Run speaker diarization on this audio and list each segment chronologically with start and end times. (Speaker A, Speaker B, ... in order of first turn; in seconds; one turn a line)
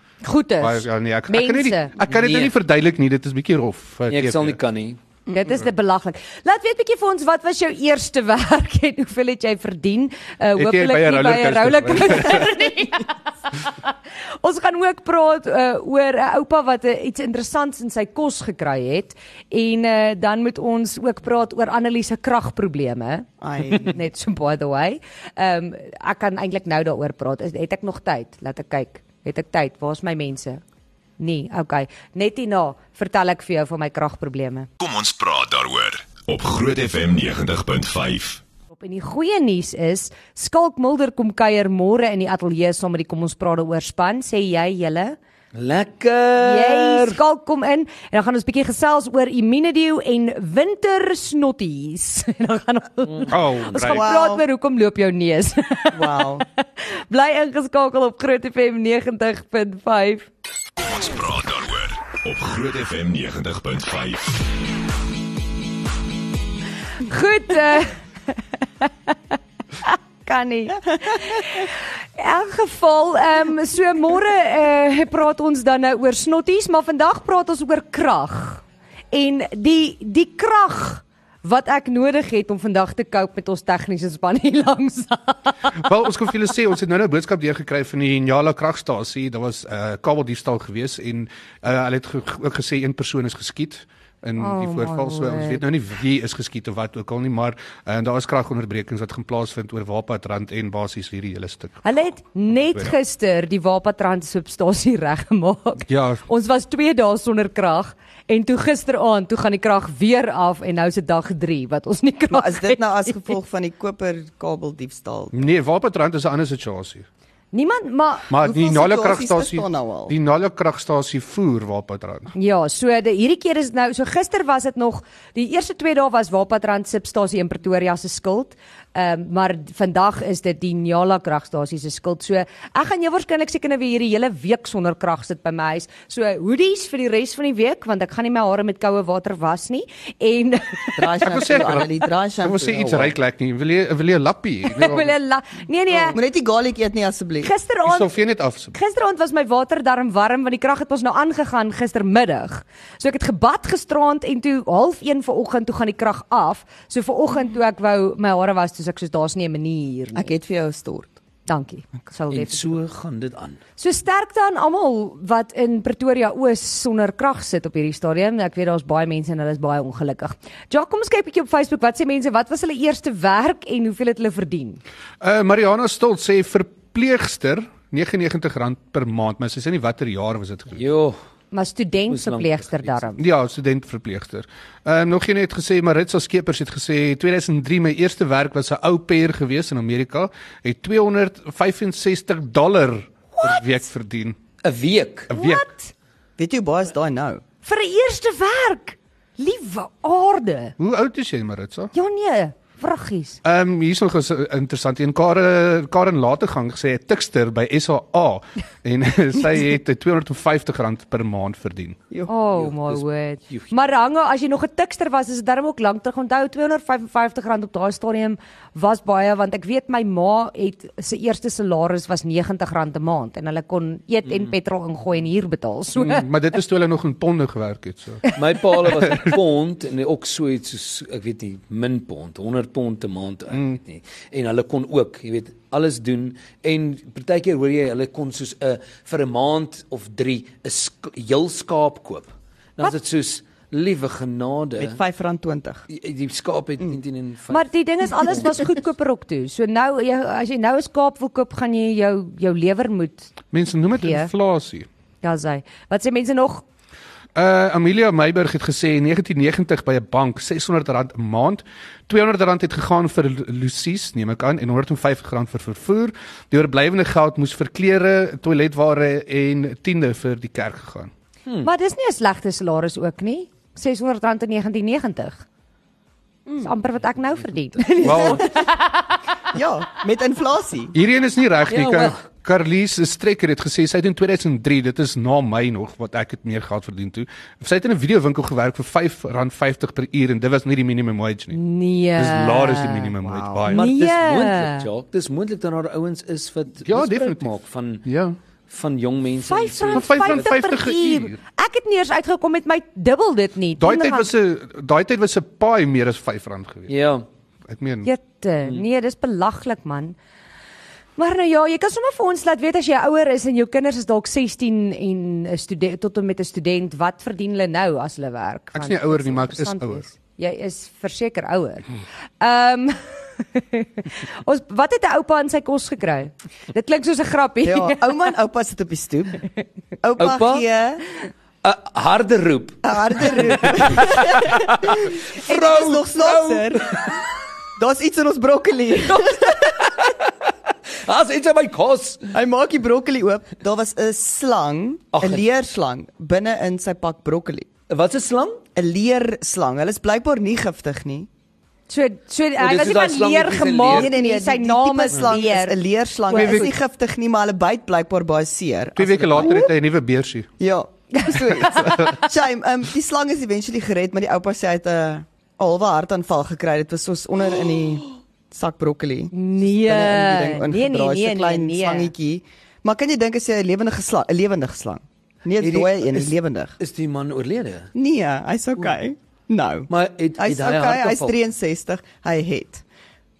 Speaker A: 0.2-1.9
Speaker B: 0.6-4.6
Speaker C: 2.0-2.5
Speaker C: 4.1-5.0
Speaker A: 5.3-30.6
Speaker B: 10.6-12.6
Speaker D: 23.4-24.0
Speaker A: 31.2-34.7
Speaker E: 34.8-38.4
Speaker A: 38.7-45.2
Speaker C: 45.5-47.2
Speaker A: 46.4-60.3
Speaker C: 53.1-53.4
Speaker B: 53.3-54.1
Speaker D: 53.8-54.4
Speaker D: 55.9-56.4
Speaker E: 60.8-64.5
Speaker A: 67.0-69.1
Speaker A: 69.8-85.8
Speaker B: 85.7-101.8
Speaker A: 94.4-95.6
Speaker A: 101.8-113.3
Speaker B: 105.9-106.2
Speaker D: 112.3-115.5
Speaker B: 115.3-117.0
Speaker A: 117.5-118.3
Speaker B: 118.3-122.3
Speaker D: 118.3-120.1
Speaker A: 122.3-141.7
Speaker D: 140.9-143.1
Speaker B: 141.2-141.9
Speaker B: 142.4-145.1
Speaker A: 144.7-146.2
Speaker D: 146.1-147.5
Speaker A: 147.4-148.1
Speaker B: 147.8-148.7
Speaker A: 148.7-160.3
Speaker D: 160.1-161.1
Speaker A: 161.5-162.8
Speaker C: 162.3-163.6
Speaker A: 163.8-174.8
Speaker B: 175.2-180.8
Speaker C: 180.7-181.2
Speaker A: 181.5-183.2
Speaker C: 182.1-183.1
Speaker B: 183.2-194.4
Speaker A: 193.3-193.6
Speaker C: 194.6-195.3
Speaker A: 195.3-195.9
Speaker B: 195.3-195.7
Speaker D: 196.4-197.4
Speaker A: 197.6-200.8
Speaker B: 200.8-201.9
Speaker A: 201.9-203.4
Speaker B: 203.4-212.0
Speaker A: 212.3-226.3
Speaker C: 212.6-213.7
Speaker B: 225.9-228.4
Speaker C: 228.3-244.9
Speaker D: 244.8-245.8
Speaker C: 245.9-248.6
Speaker A: 247.5-253.3
Speaker B: 253.5-254.9
Speaker A: 253.9-254.3
Speaker A: 255.2-256.6
Speaker B: 257.3-271.1
Speaker A: 271.6-275.4
Speaker A: 276.6-279.2
Speaker D: 278.0-278.4
Speaker B: 278.0-278.4
Speaker D: 279.5-280.9
Speaker B: 280.9-291.6
Speaker C: 281.7-282.2
Speaker A: 291.5-294.9
Speaker B: 292.1-293.9
Speaker C: 293.7-298.1
Speaker B: 296.9-297.5
Speaker B: 298.1-298.4
Speaker C: 298.7-300.5
Speaker A: 299.4-304.3
Speaker B: 299.9-301.4
Speaker B: 303.8-306.9
Speaker C: 306.9-307.2
Speaker B: 307.7-308.1
Speaker A: 308.0-310.1
Speaker A: 311.2-321.8
Speaker B: 318.7-320.0
Speaker A: 322.4-328.0
Speaker D: 327.6-329.5
Speaker D: 330.0-331.0
Speaker C: 330.2-330.6
Speaker C: 331.6-337.1
Speaker D: 332.8-336.9
Speaker D: 337.8-339.7
Speaker C: 339.6-340.3
Speaker C: 341.0-342.3
Speaker D: 342.3-347.7
Speaker C: 345.1-345.4
Speaker C: 347.9-348.6
Speaker D: 348.8-351.3
Speaker A: 351.9-355.8
Speaker C: 352.6-354.1
Speaker D: 353.9-359.7
Speaker A: 356.3-356.7
Speaker B: 356.3-356.7
Speaker B: 358.9-360.5
Speaker A: 359.4-359.7
Speaker D: 360.6-376.7
Speaker A: 361.1-362.2
Speaker B: 361.6-362.1
Speaker A: 369.3-372.1
Speaker C: 375.6-377.9
Speaker D: 377.9-382.8
Speaker C: 379.9-381.4